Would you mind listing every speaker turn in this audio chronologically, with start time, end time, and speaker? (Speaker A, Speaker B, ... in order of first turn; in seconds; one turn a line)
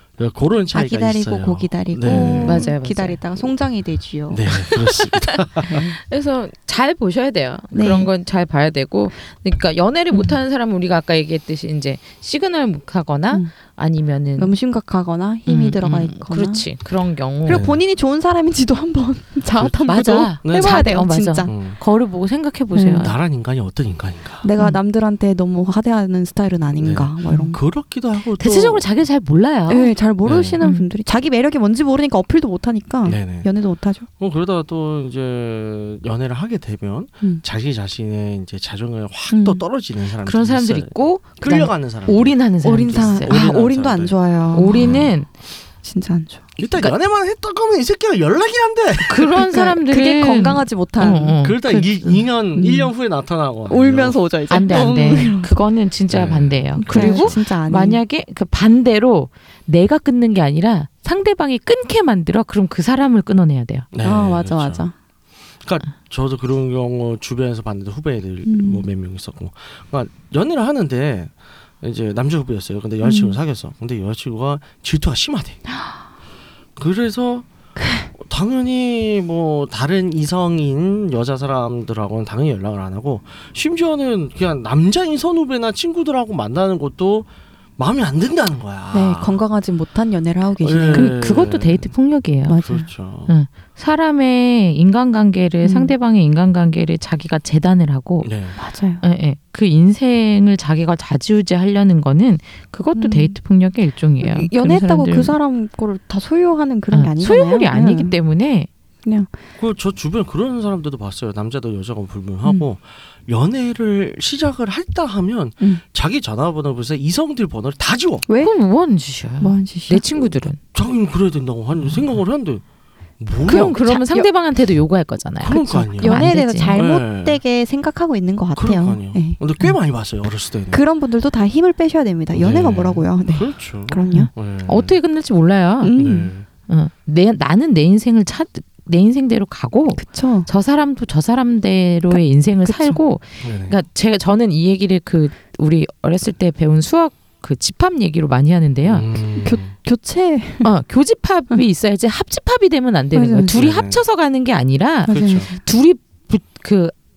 Speaker A: 0.2-2.7
Speaker B: 0.7-4.8
Speaker C: 2.1-3.2
Speaker A: 4.3-5.9
Speaker C: 4.5-14.5
Speaker B: 7.7-8.1
Speaker B: 14.4-16.7
Speaker C: 15.5-17.6
Speaker B: 17.4-21.5
Speaker A: 17.5-17.8
Speaker A: 19.6-20.9
Speaker C: 19.9-23.1
Speaker A: 21.5-21.8
Speaker B: 22.7-23.1
Speaker A: 22.9-24.5
Speaker B: 24.4-27.6
Speaker A: 26.8-28.9
Speaker C: 28.4-29.9
Speaker B: 29.7-34.1
Speaker A: 30.2-30.6
Speaker C: 30.6-30.9
Speaker A: 33.1-33.5
Speaker A: 34.2-44.2
Speaker B: 39.3-39.6
Speaker C: 40.2-43.5
Speaker B: 42.6-45.1
Speaker C: 44.5-45.3
Speaker A: 44.7-45.1
Speaker B: 45.8-46.5
Speaker A: 46.6-49.3
Speaker C: 49.1-52.2
Speaker B: 49.3-51.4
Speaker A: 51.4-54.2
Speaker B: 52.5-52.9
Speaker B: 53.7-55.5
Speaker C: 54.5-63.9
Speaker A: 56.1-57.4
Speaker B: 56.8-58.0
Speaker A: 63.9-64.9
Speaker B: 64.0-64.9
Speaker A: 65.6-75.6
Speaker B: 68.5-68.8
Speaker B: 73.0-73.3
Speaker A: 76.8-77.5
Speaker B: 77.8-78.1
Speaker A: 78.2-89.4
Speaker B: 88.9-91.2
Speaker A: 90.6-91.9
Speaker C: 90.9-92.7
Speaker B: 92.5-92.9
Speaker A: 92.6-93.3
Speaker C: 93.3-98.3
Speaker B: 95.6-96.0
Speaker A: 98.2-98.6
Speaker B: 98.6-99.0
Speaker C: 99.0-105.4
Speaker B: 103.0-103.4
Speaker B: 104.2-108.2
Speaker C: 106.9-108.7
Speaker B: 109.0-109.3
Speaker A: 109.6-118.3
Speaker C: 118.4-120.6
Speaker B: 119.4-120.3
Speaker A: 120.7-122.6
Speaker A: 123.2-123.8
Speaker C: 123.5-126.8
Speaker B: 123.5-124.3
Speaker A: 125.4-127.4
Speaker B: 126.0-129.4
Speaker A: 128.6-130.8
Speaker B: 130.7-134.3
Speaker A: 132.3-135.0
Speaker C: 134.1-136.0
Speaker B: 135.8-136.3
Speaker A: 136.0-136.5
Speaker C: 136.7-149.1
Speaker B: 139.9-140.5
Speaker B: 142.2-143.0
Speaker A: 143.4-143.8
Speaker A: 148.9-149.7
Speaker B: 149.4-150.7
Speaker C: 150.6-156.9
Speaker B: 153.1-153.6
Speaker A: 153.5-154.0
Speaker A: 155.1-155.5
Speaker B: 155.1-155.5